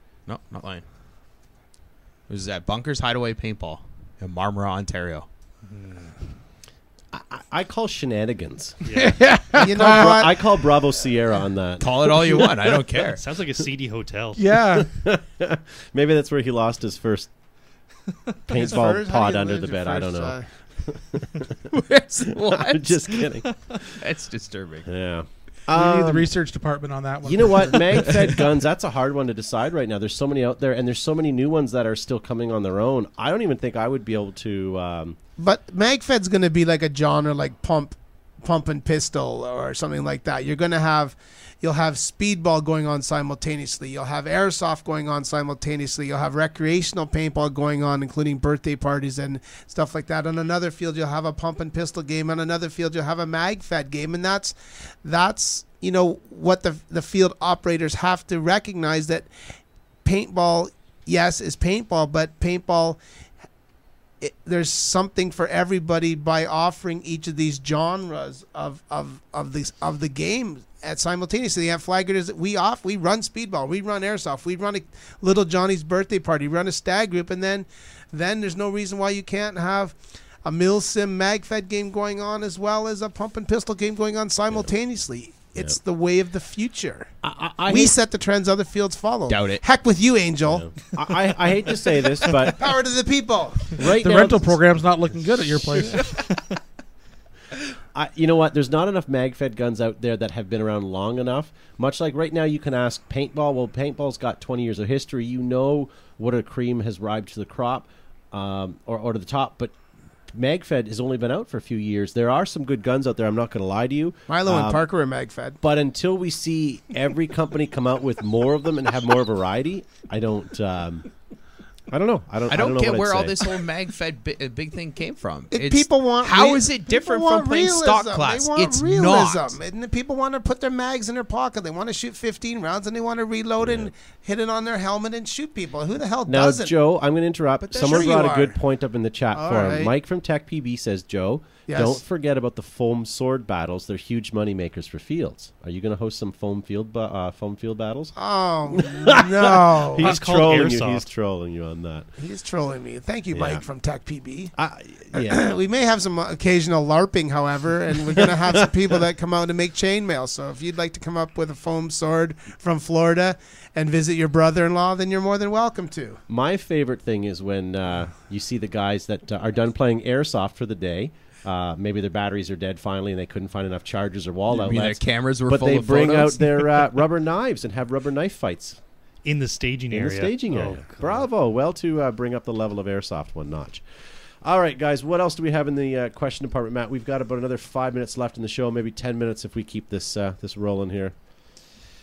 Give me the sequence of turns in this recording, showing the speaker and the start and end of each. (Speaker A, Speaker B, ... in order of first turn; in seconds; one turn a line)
Speaker A: 0.3-0.8
Speaker A: 2.3-5.3
Speaker B: 5.6-6.1
Speaker C: 7.1-8.8
Speaker B: 8.8-9.2
Speaker D: 8.9-10.1
Speaker E: 9.5-10.3
Speaker C: 9.6-12.4
Speaker A: 11.8-13.2
Speaker B: 13.0-14.4
Speaker D: 14.3-14.9
Speaker C: 14.8-17.3
Speaker C: 18.5-21.5
Speaker E: 18.5-20.5
Speaker A: 21.7-24.9
Speaker C: 22.3-23.5
Speaker C: 24.9-26.3
Speaker D: 25.7-28.1
Speaker C: 27.2-35.2
Speaker E: 35.4-59.3
Speaker E: 60.0-63.0
Speaker E: 64.2-87.1
Speaker C: 87.2-88.0
Speaker E: 87.7-90.7
Speaker A: 89.3-89.6
Speaker C: 90.5-92.7
Speaker E: 92.4-93.8
Speaker C: 93.7-94.6
Speaker D: 93.9-96.1
Speaker C: 97.9-109.7
Speaker C: 110.3-114.8
Speaker E: 114.3-115.6
Speaker C: 115.6-121.1
Speaker C: 121.9-123.5
Speaker A: 122.5-129.6
Speaker E: 125.5-136.7
Speaker C: 133.6-133.9
Speaker C: 136.2-148.1
Speaker E: 137.7-138.6
Speaker E: 139.3-139.9
Speaker E: 141.7-142.0
Speaker E: 148.2-150.2
Speaker C: 148.7-152.1
Speaker B: 150.0-151.1
Speaker E: 152.2-154.5
Speaker C: 153.3-153.6
Speaker C: 154.6-155.5
Speaker E: 155.1-166.2
Speaker C: 158.2-158.5
Speaker C: 166.3-178.8
Speaker A: 174.5-176.9
Speaker B: 179.2-181.3
Speaker C: 179.9-183.8
Speaker C: 184.4-191.1